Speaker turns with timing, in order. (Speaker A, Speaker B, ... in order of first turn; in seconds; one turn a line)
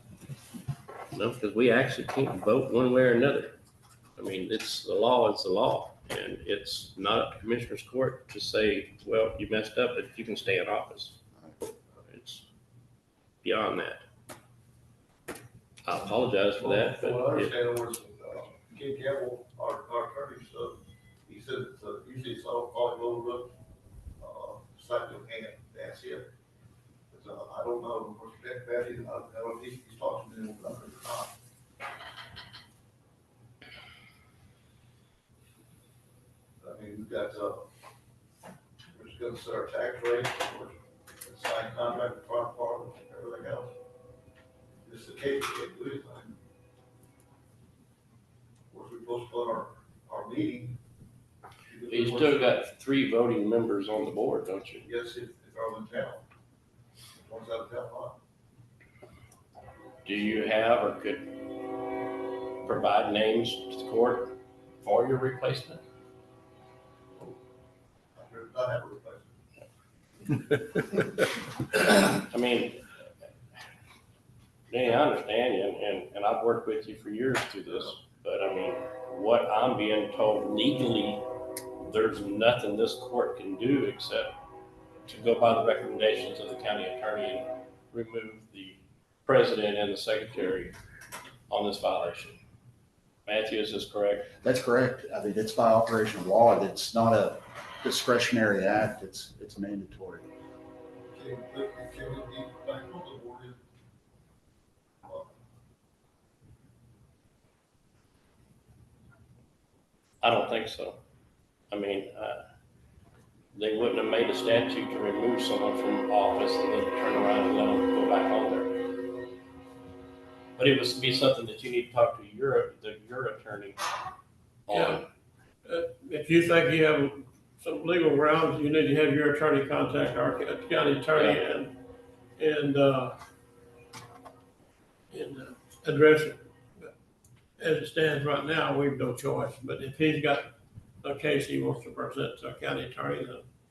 Speaker A: 1.1-3.6
Speaker A: 4.2-11.2
Speaker A: 12.0-12.4
Speaker A: 13.4-14.1
Speaker A: 15.8-17.5
Speaker B: 16.6-23.5
Speaker B: 24.2-26.3
Speaker B: 27.1-31.4
Speaker B: 36.6-37.7
Speaker B: 38.9-43.7
Speaker B: 44.8-46.4
Speaker B: 48.7-50.8
Speaker B: 51.6-52.6
Speaker A: 51.9-54.9
Speaker B: 54.8-56.2
Speaker B: 57.2-58.2
Speaker A: 60.0-61.3
Speaker A: 62.6-65.8
Speaker B: 68.2-69.3
Speaker A: 72.0-73.0
Speaker A: 74.7-81.3
Speaker A: 81.8-84.3
Speaker A: 85.0-90.8
Speaker A: 91.5-92.4
Speaker A: 93.3-94.3
Speaker C: 94.4-100.3
Speaker B: 101.1-103.6
Speaker B: 105.0-105.3
Speaker A: 110.2-111.0
Speaker A: 111.7-112.4
Speaker A: 113.5-118.7
Speaker A: 120.6-123.8
Speaker A: 124.7-125.0
Speaker D: 124.7-125.0
Speaker D: 125.7-131.7
Speaker A: 131.2-131.4
Speaker D: 132.4-133.1
Speaker D: 135.1-136.9
Speaker D: 137.6-140.5
Speaker D: 141.0-143.4